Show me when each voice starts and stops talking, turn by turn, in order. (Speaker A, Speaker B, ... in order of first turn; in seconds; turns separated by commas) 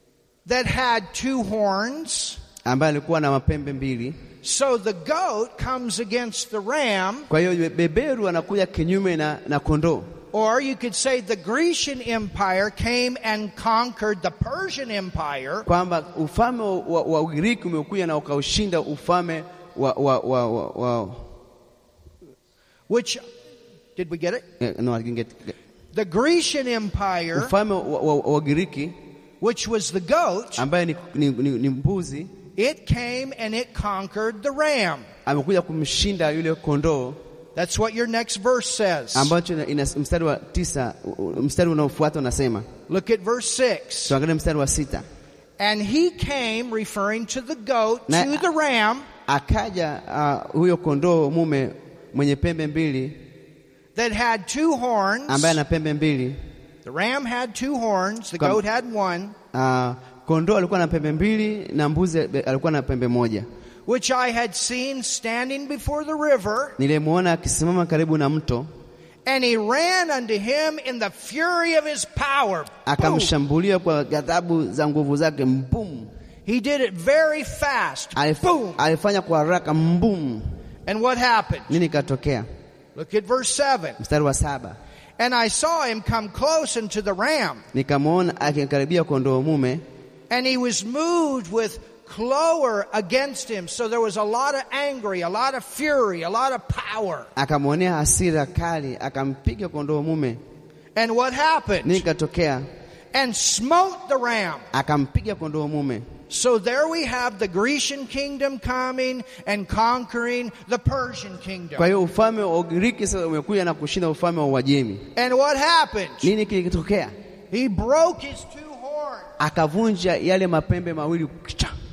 Speaker A: 0.5-2.4, Speaker B: 2.6-4.2, Speaker A: 4.4-7.3, Speaker B: 7.3-10.1, Speaker A: 10.3-15.7, Speaker B: 15.7-21.3, Speaker A: 22.9-23.2, Speaker A: 24.0-24.4, Speaker B: 24.6-25.5, Speaker A: 25.9-27.5, Speaker B: 27.4-29.0, Speaker A: 29.4-30.6, Speaker B: 30.6-32.3, Speaker A: 32.6-35.1, Speaker B: 35.3-37.2, Speaker A: 37.6-39.3, Speaker B: 39.1-42.7, Speaker A: 42.9-44.1, Speaker B: 44.1-45.0, Speaker A: 45.6-49.1, Speaker B: 48.1-48.4, Speaker B: 49.3-53.2, Speaker A: 54.0-55.6, Speaker B: 55.3-56.4, Speaker A: 56.9-59.4, Speaker B: 59.5-63.5, Speaker A: 63.9-66.8, Speaker B: 66.8-68.7, Speaker A: 69.3-73.3, Speaker B: 72.9-76.1, Speaker A: 76.5-78.8, Speaker B: 78.2-80.5, Speaker A: 80.9-81.7, Speaker B: 81.7-82.5, Speaker A: 83.0-84.0, Speaker B: 84.0-84.8, Speaker A: 85.2-87.6, Speaker B: 87.7-89.8, Speaker A: 90.3-97.3, Speaker B: 97.4-100.4, Speaker A: 101.0-102.0, Speaker B: 101.8-102.7, Speaker A: 103.1-104.7, Speaker B: 104.7-106.1, Speaker A: 106.3-111.9, Speaker B: 111.8-115.1, Speaker A: 115.2-116.3, Speaker B: 116.2-117.1, Speaker A: 117.5-119.3, Speaker B: 119.4-121.8